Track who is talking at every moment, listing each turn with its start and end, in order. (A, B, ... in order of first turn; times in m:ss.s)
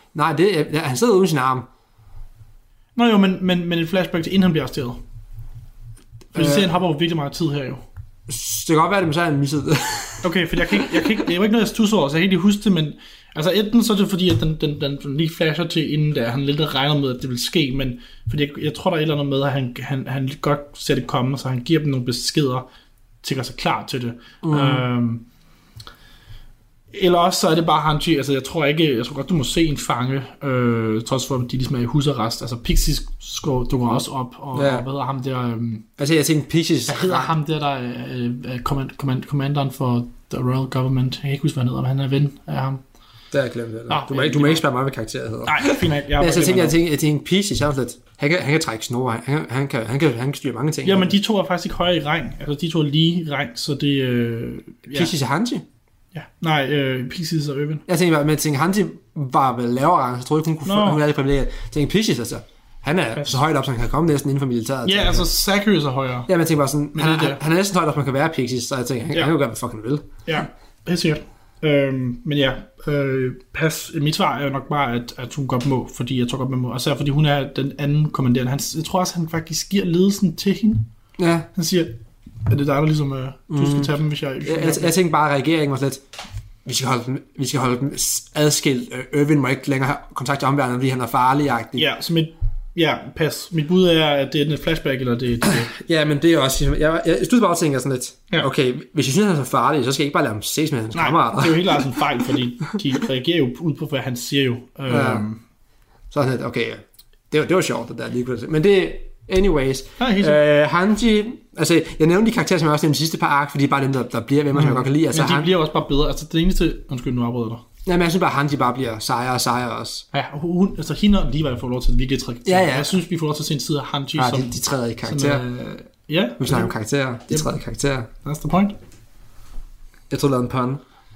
0:00.1-0:01.7 A
0:03.0-0:05.0 B
0:06.3-0:06.7 A
0:06.3-0:07.8 B
0:08.3-0:11.1 A
0:10.2-0:22.7 B
0:23.2-0:25.2 B
0:24.4-0:24.9 A
0:26.9-0:35.9 B
0:34.5-0:34.9 A
0:36.0-0:37.3 A
0:36.9-0:42.8 B
0:43.3-0:51.2 A
0:43.9-0:44.6 B
0:45.5-0:46.8 B
0:50.8-0:55.1 B
0:54.9-0:55.6 A
0:56.1-0:57.8 B
0:57.9-1:05.3 A
1:00.6-1:01.0 B
1:04.8-1:06.3 B
1:06.3-1:10.1 A
1:06.9-1:07.4 B
1:10.2-1:20.9 B
1:21.2-1:21.5 A
1:21.6-1:25.0 B
1:23.5-1:26.0 A
1:26.6-1:31.9 A
1:31.8-1:35.7 B
1:35.5-1:42.0 A
1:41.0-1:45.4 B
1:44.9-1:45.2 A
1:46.1-1:55.6 A
1:50.0-1:50.4 B
1:54.5-1:57.6 B
1:57.8-2:00.1 A
2:00.1-2:04.5 B
2:02.4-2:03.0 A
2:04.2-2:05.5 A
2:05.0-2:06.7 B
2:06.4-2:08.1 A
2:07.3-2:07.5 B
2:08.2-2:08.8 B
2:10.1-2:10.8 A